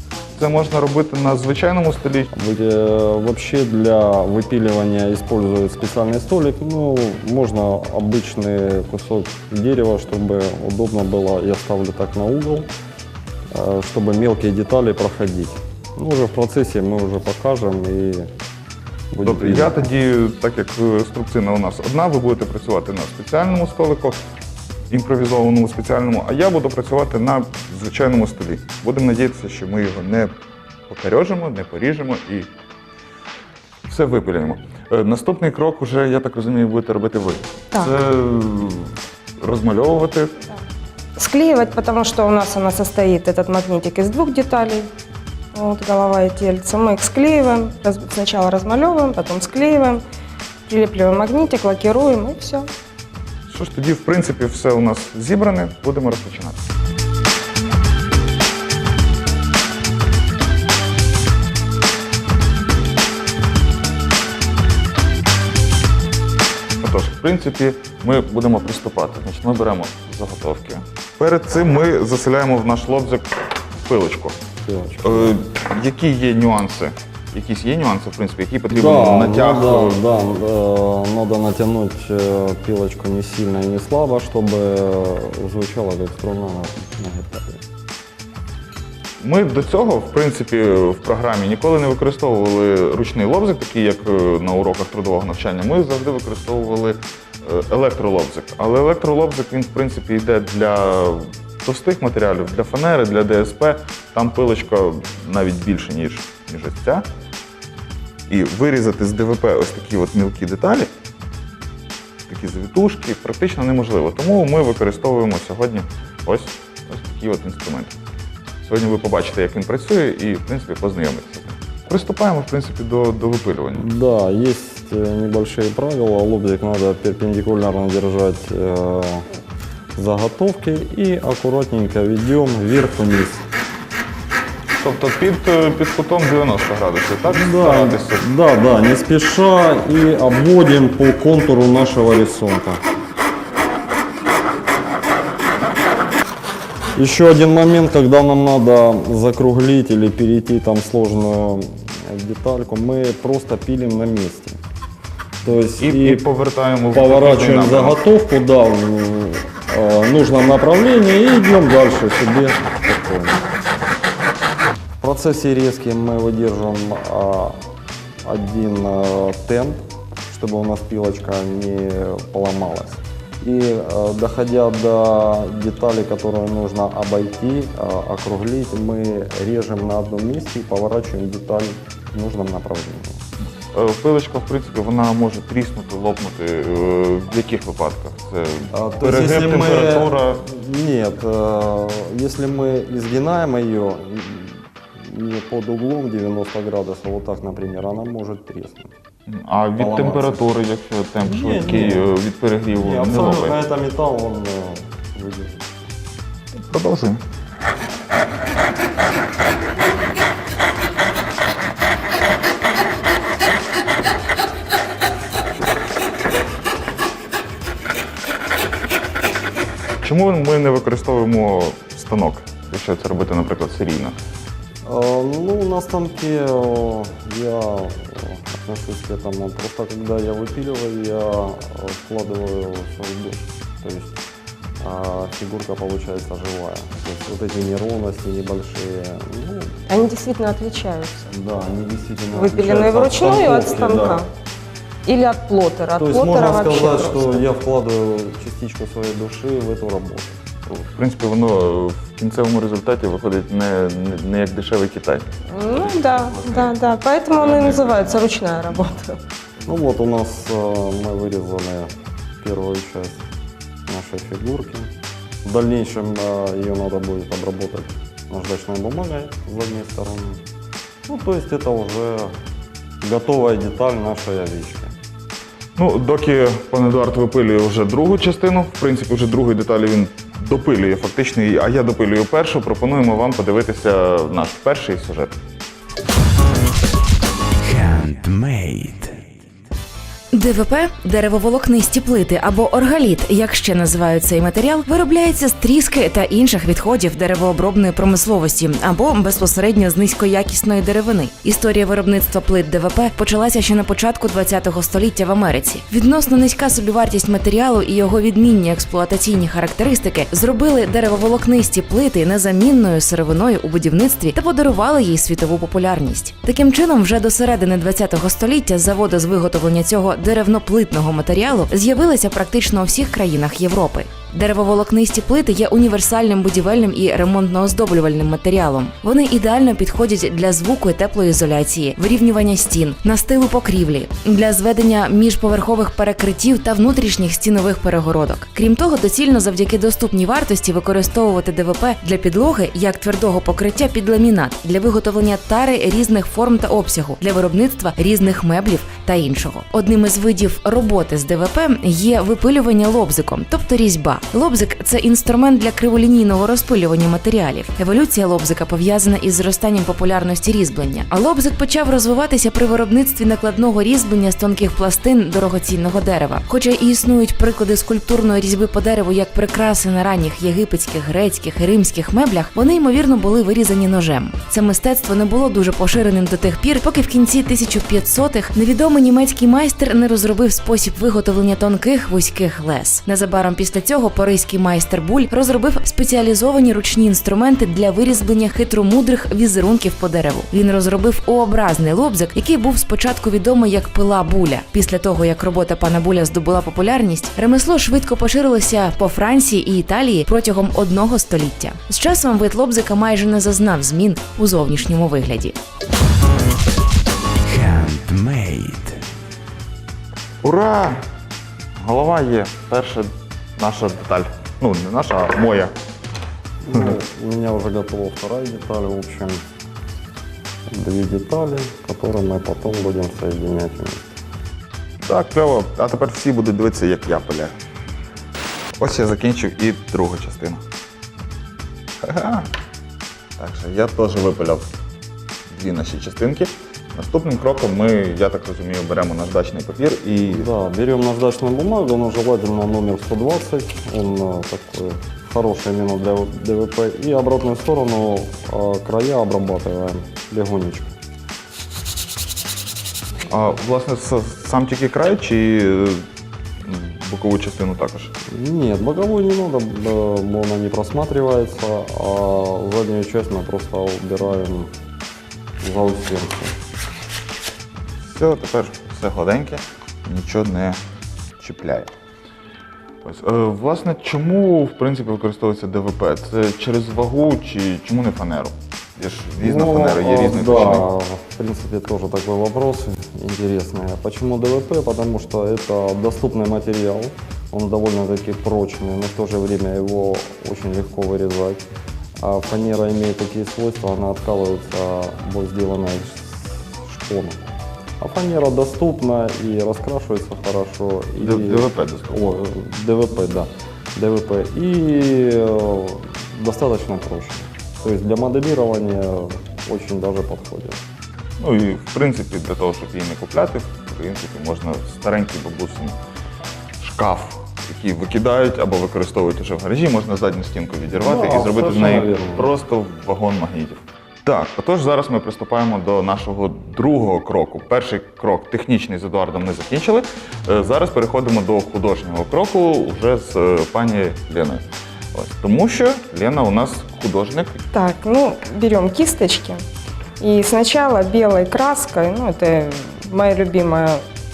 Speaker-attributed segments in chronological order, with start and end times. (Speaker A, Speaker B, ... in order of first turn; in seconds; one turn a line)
Speaker A: 0.3-2.3
Speaker B: 2.3-12.7
Speaker B: 13.5-18.3
Speaker B: 19.1-19.9
Speaker A: 19.2-24.2
Speaker A: 24.9-30.3
Speaker A: 30.9-32.5
Speaker A: 33.9-40.3
Speaker C: 41.2-44.9
Speaker C: 45.5-50.0
Speaker C: 50.7-52.7
Speaker A: 53.5-56.6
Speaker A: 66.8-74.4
Speaker B: 74.6-75.4
Speaker A: 75.0-80.0
Speaker B: 78.7-87.6
Speaker A: 89.2-107.0
Speaker A: 108.3-110.9
Speaker A: 112.3-117.9
Speaker A: 118.6-123.9
Speaker B: 123.8-129.3
Speaker B: 129.9-133.4
Speaker A: 134.8-138.2
Speaker B: 137.2-142.8
Speaker B: 146.9-154.6
Speaker B: 155.4-156.2
Speaker A: 155.5-158.0
Speaker B: 156.9-163.4
Speaker B: 165.0-167.6
Speaker B: 168.2-183.2
Speaker A: 183.7-190.4
Speaker B: 188.7-198.9
Speaker A: 199.3-203.6
Speaker B: 199.8-200.4
Speaker B: 201.2-202.1
Speaker B: 202.7-205.9
Speaker A: 206.7-207.2
Speaker A: 220.0-224.1
Speaker B: 224.8-234.2
Speaker B: 234.8-239.8
Speaker C: 239.9-241.3
Speaker B: 241.3-244.2
Speaker C: 242.3-244.3
Speaker C: 245.0-247.4
Speaker B: 246.0-250.4
Speaker A: 250.7-256.8
Speaker C: 255.5-259.2
Speaker A: 257.3-258.3
Speaker B: 259.6-263.2
Speaker B: 263.9-270.4
Speaker B: 271.1-272.3
Speaker B: 273.0-274.9
Speaker A: 275.8-285.3
Speaker D: 287.6-289.3
Speaker E: 290.3-405.6
Speaker D: 407.5-409.0
Speaker A: 410.4-411.0
Speaker A: 411.8-415.7
Speaker B: 416.6-419.4
Speaker B: 420.6-424.1
Speaker A: 425.0-427.5
Speaker A: 428.8-430.6
Speaker A: 432.0-432.5
Speaker A: 433.4-434.7
Speaker A: 435.5-440.5
Speaker B: 440.3-451.0
Speaker A: 453.3-456.1
Speaker A: 456.6-458.1
Speaker B: 458.2-464.7
Speaker B: 465.6-466.6
Speaker A: 468.0-470.8
Speaker A: 471.4-471.9
Speaker A: 473.0-480.9
Speaker B: 479.4-491.6
Speaker B: 492.2-497.4
Speaker B: 498.0-510.8
Speaker A: 501.2-502.3
Speaker A: 511.4-516.0
Speaker A: 516.8-537.6
Speaker B: 521.0-522.5
Speaker C: 537.7-539.6
Speaker C: 540.2-544.0